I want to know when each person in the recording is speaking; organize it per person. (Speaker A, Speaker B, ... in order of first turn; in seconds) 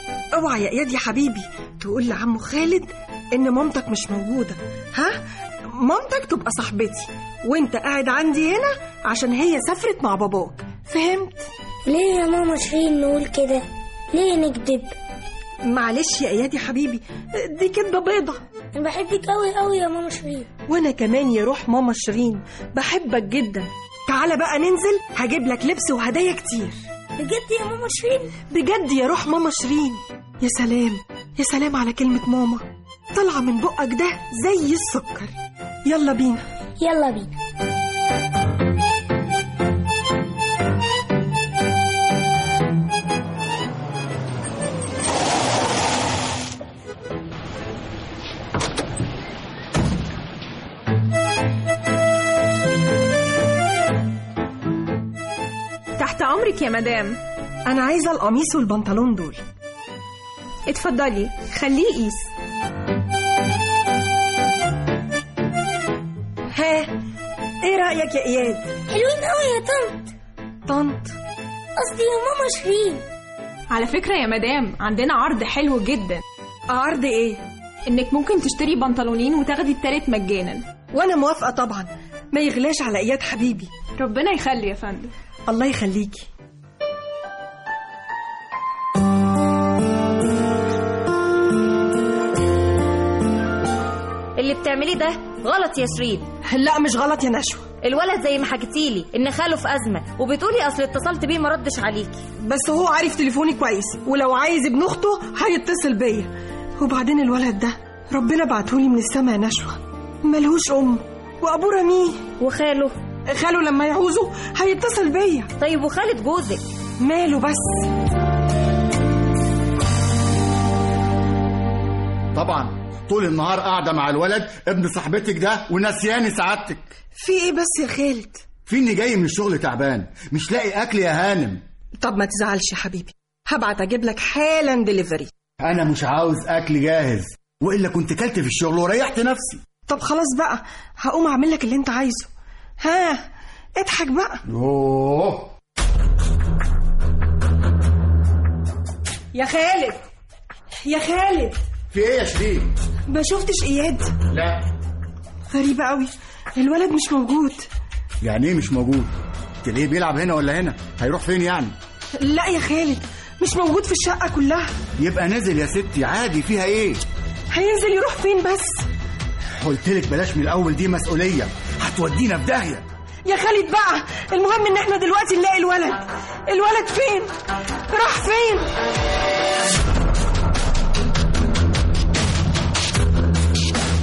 Speaker A: 0.3-11.5, 15.6-18.4, 20.7-26.8, 28.4-35.3, 35.9-36.4, 57.7-59.4, 66.5-67.0, 67.6-68.7, 70.7-71.1, 76.7-77.4, 80.9-83.8, 85.5-86.3, 96.5-97.7, 102.4-112.3, 113.3-115.5, 117.0-117.9, 127.2-128.4, 132.0-135.3, 139.9-143.2, 143.8-144.4, 149.3-150.0, 150.8-151.6, 153.1-154.2, 155.5-157.6, 162.2-164.7, 167.5-168.8, 173.2-177.3, 177.9-178.7
Speaker B: 11.9-14.9, 18.8-20.5, 27.2-28.4, 36.8-37.3, 68.9-70.1, 71.8-73.0
Speaker C: 56.0-57.2, 60.7-62.3, 73.7-76.2, 77.9-80.7, 84.0-85.1
Speaker D: 94.4-96.2, 97.8-102.2, 112.4-113.0, 115.6-116.6
Speaker E: 122.3-126.9, 128.7-131.6, 135.6-139.6, 144.5-145.5, 151.9-152.7, 154.3-154.6, 158.2-161.8, 165.0-167.0, 169.6-172.8